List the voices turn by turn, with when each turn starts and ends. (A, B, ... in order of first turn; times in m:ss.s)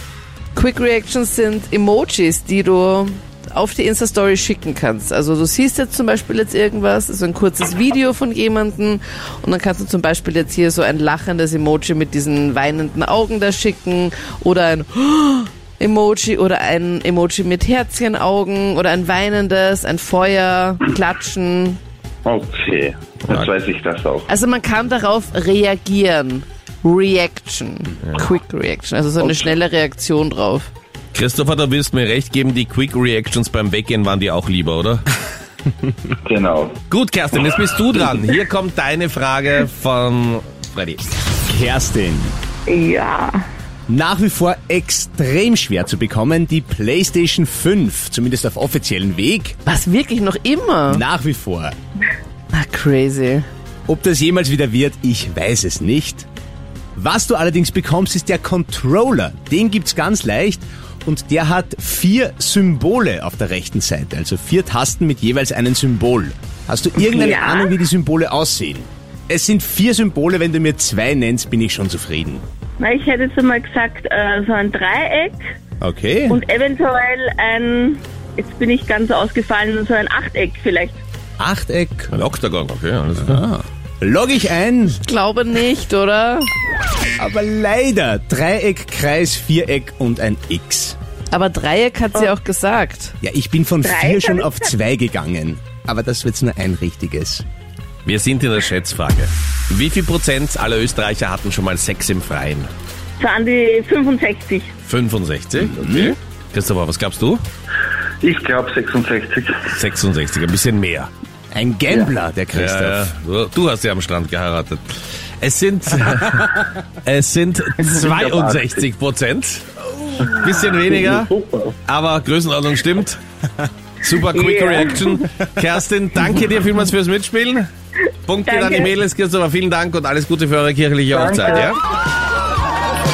0:00.6-0:21.8 A
0:22.2-0:24.3 B
0:24.3-0:30.7 A
0:31.1-0:35.0 C
0:36.2-0:36.8 B
0:36.9-0:41.0 C
0:41.5-0:42.4 D
0:42.7-0:43.5 E
0:43.9-0:49.6 D
0:49.6-0:51.0 A
0:50.9-0:51.8 D
0:52.5-0:53.4 A
0:53.9-0:56.3 D
0:57.0-1:12.4 D
1:07.0-1:07.7 E
1:12.8-1:15.5 E
1:15.8-1:16.4 D
1:16.3-1:21.0 E
1:21.4-1:22.1 D
1:22.1-1:23.4 C
1:23.2-1:25.0 D
1:25.0-1:26.5 A
1:27.2-1:31.0 D
1:31.3-1:33.2 A
1:33.2-1:37.4 D
1:33.8-1:34.7 E
1:38.0-1:42.7 C
1:43.2-1:44.7 E
1:44.8-1:47.4 C
1:45.6-1:46.2 D
1:48.2-1:49.6 B
1:49.7-1:51.1 C
1:51.5-1:53.1 D
1:52.5-2:01.3 C
1:57.8-1:58.9 B
2:00.4-2:01.8 B
2:01.9-2:03.2 C
2:04.0-2:07.7 C
2:04.3-2:05.2 E
2:08.3-2:11.8 C
2:08.4-2:08.9 E
2:11.1-2:11.7 B